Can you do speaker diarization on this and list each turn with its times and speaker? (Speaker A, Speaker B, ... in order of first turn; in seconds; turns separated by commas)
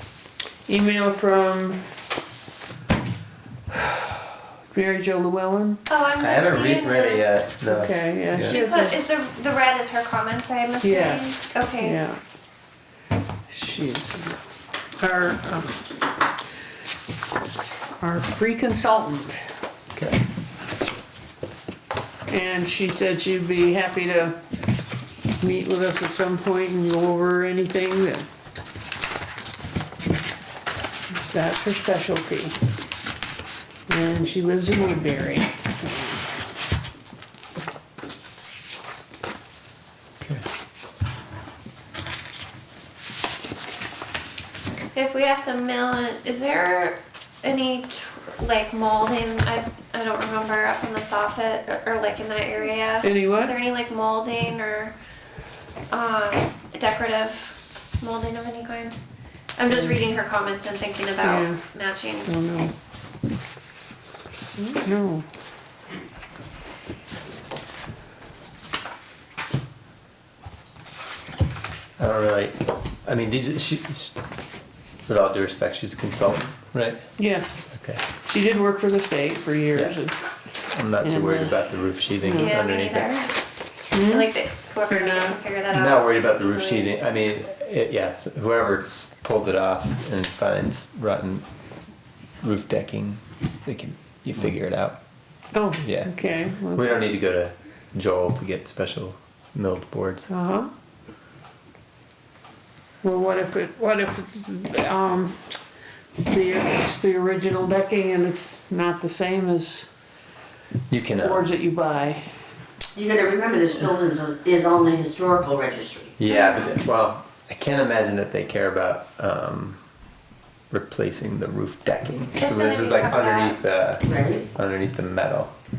Speaker A: 0.7-1.9, Speaker A: 4.7-5.8, Speaker B: 5.9-7.4, Speaker C: 6.2-8.6, Speaker A: 7.7-9.0, Speaker B: 8.4-12.0, Speaker A: 10.8-12.2, Speaker A: 13.5-14.4, Speaker A: 15.0-15.8, Speaker A: 18.0-19.5, Speaker C: 20.0-20.2, Speaker A: 22.3-24.4, Speaker A: 25.4-28.3, Speaker A: 31.1-32.6, Speaker A: 33.9-36.2, Speaker B: 44.9-54.9, Speaker A: 53.0-53.5, Speaker B: 55.9-59.0, Speaker B: 59.6-62.3, Speaker A: 61.2-61.6, Speaker A: 62.2-62.7, Speaker A: 64.6-65.3, Speaker C: 72.0-74.2, Speaker C: 75.1-77.0, Speaker A: 77.2-80.2, Speaker C: 77.7-78.0, Speaker C: 80.7-83.2, Speaker A: 81.0-81.5, Speaker A: 82.2-82.6, Speaker B: 82.3-83.3, Speaker A: 83.9-84.3, Speaker B: 84.0-86.9, Speaker A: 84.9-85.4, Speaker C: 85.7-91.5, Speaker C: 92.4-95.0, Speaker A: 95.5-97.1, Speaker C: 95.7-100.3, Speaker A: 100.3-100.7, Speaker A: 103.0-105.5, Speaker A: 106.2-109.9, Speaker C: 110.9-111.5, Speaker A: 111.2-112.3, Speaker D: 113.0-116.2, Speaker C: 116.2-119.8, Speaker B: 116.3-116.7, Speaker C: 120.7-125.5, Speaker B: 122.4-123.6, Speaker D: 124.0-124.5